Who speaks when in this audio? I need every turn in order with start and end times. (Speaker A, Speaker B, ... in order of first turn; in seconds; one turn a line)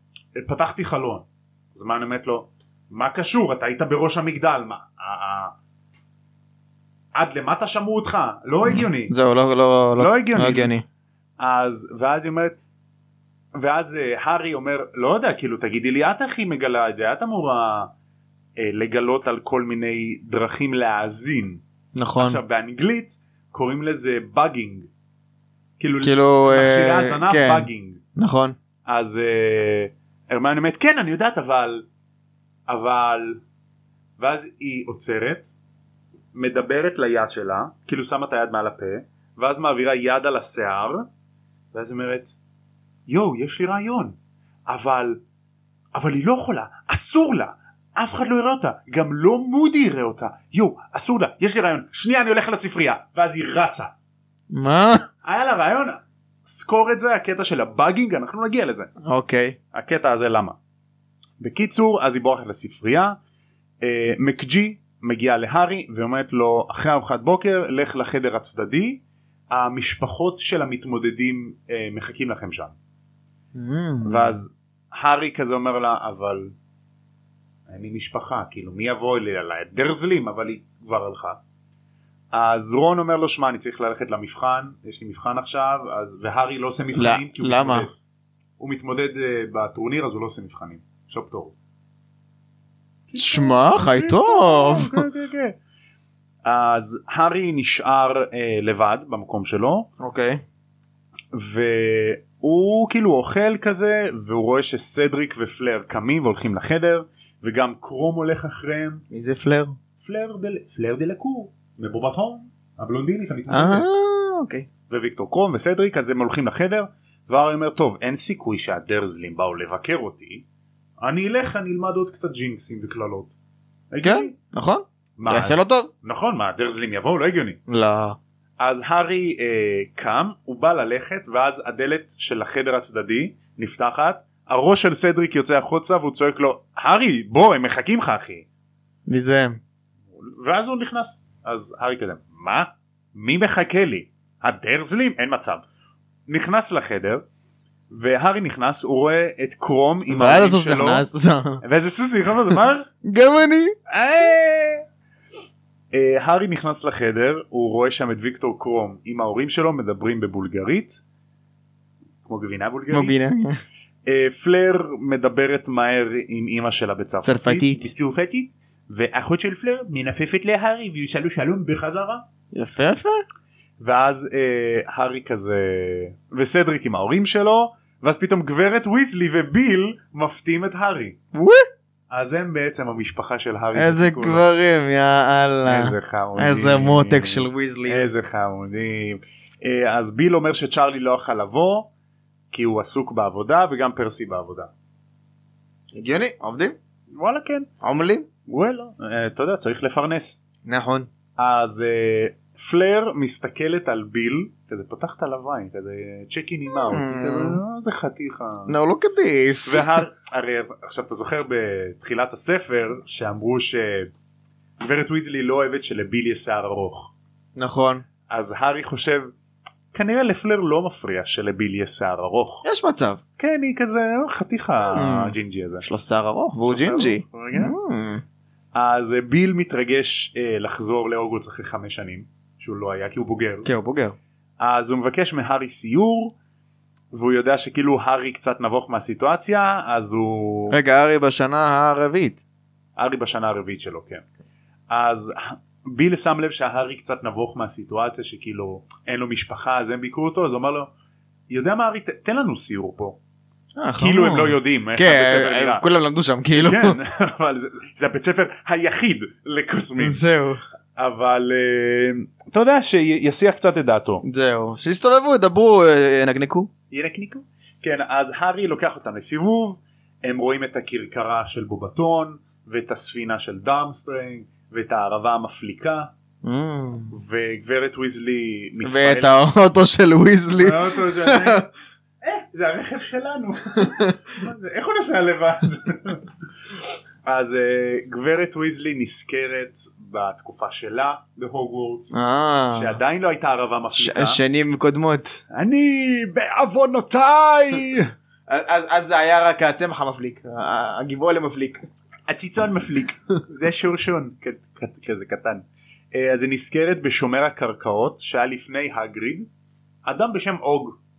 Speaker A: 0.3-5.5
Speaker A: 7.1-9.1
Speaker B: 8.6-10.8
Speaker A: 10.0-10.7
Speaker A: 11.4-12.6
Speaker A: 13.6-17.9
Speaker A: 18.6-21.6
Speaker B: 21.9-22.4
Speaker A: 22.2-24.9
Speaker A: 25.8-28.0
Speaker B: 26.0-28.6
Speaker A: 28.9-31.9
Speaker A: 32.7-33.4
Speaker A: 34.2-35.5
Speaker A: 36.3-41.0
Speaker A: 41.7-42.4
Speaker A: 43.1-44.1
Speaker A: 44.7-45.2
Speaker A: 45.9-53.9
Speaker B: 54.5-55.0
Speaker A: 55.2-58.9
Speaker B: 59.0-59.6
Speaker A: 59.7-60.6
Speaker A: 61.4-63.2
Speaker A: 63.8-72.7
Speaker B: 73.5-74.4
Speaker A: 74.0-76.5
Speaker A: 77.7-81.4
Speaker A: 82.3-87.9
Speaker B: 86.9-87.9
Speaker A: 88.6-91.5
Speaker A: 93.1-95.5
Speaker B: 93.2-95.0
Speaker A: 96.4-99.9
Speaker B: 100.0-100.4
Speaker A: 101.3-109.0
Speaker B: 109.1-109.8
Speaker A: 110.0-113.8
Speaker B: 113.5-114.7
Speaker A: 114.9-120.4
Speaker A: 121.0-123.3
Speaker A: 123.9-124.3
Speaker B: 124.0-125.9
Speaker A: 125.2-127.6
Speaker B: 127.7-128.2
Speaker A: 128.6-138.5
Speaker B: 139.1-139.6
Speaker A: 140.2-145.6
Speaker A: 146.3-147.2
Speaker A: 147.9-151.1
Speaker B: 150.1-151.6
Speaker A: 151.6-152.9
Speaker B: 152.5-153.7
Speaker A: 153.9-154.8
Speaker A: 155.9-161.0
Speaker A: 162.2-163.2
Speaker B: 162.9-163.6
Speaker A: 164.1-172.2
Speaker B: 167.2-167.9
Speaker B: 172.5-173.2
Speaker A: 173.8-181.2
Speaker B: 181.3-181.7
Speaker A: 182.1-184.4
Speaker B: 183.7-188.1
Speaker A: 185.6-191.9
Speaker A: 192.5-194.7
Speaker B: 195.9-196.8
Speaker A: 197.1-197.7
Speaker B: 197.8-198.3
Speaker A: 198.5-200.4
Speaker B: 200.6-201.1
Speaker A: 201.4-208.7
Speaker B: 206.8-207.6
Speaker B: 208.7-209.9
Speaker A: 209.6-214.1
Speaker A: 214.8-217.1
Speaker B: 217.6-218.0
Speaker A: 218.3-219.3
Speaker A: 219.9-222.6
Speaker B: 222.6-223.2
Speaker A: 223.4-225.8
Speaker B: 224.8-228.2
Speaker A: 226.6-227.7
Speaker A: 228.7-233.7
Speaker B: 233.6-234.2
Speaker A: 234.6-236.3
Speaker A: 237.1-240.8
Speaker B: 240.7-242.4
Speaker A: 242.9-244.2
Speaker A: 244.9-250.9
Speaker A: 251.5-253.2
Speaker B: 253.7-256.9
Speaker A: 254.0-255.8
Speaker A: 256.6-260.2
Speaker B: 260.0-260.6
Speaker A: 260.9-264.2
Speaker B: 264.2-266.7
Speaker A: 266.9-276.1
Speaker B: 276.4-277.1
Speaker A: 277.1-279.5
Speaker B: 278.8-281.6
Speaker A: 280.6-281.7
Speaker A: 282.2-286.3
Speaker B: 283.8-284.1
Speaker A: 287.2-292.1
Speaker B: 292.1-293.0
Speaker A: 292.7-294.4
Speaker B: 293.9-295.4
Speaker A: 295.5-298.1
Speaker B: 298.5-301.8
Speaker A: 302.3-309.5
Speaker A: 310.0-311.0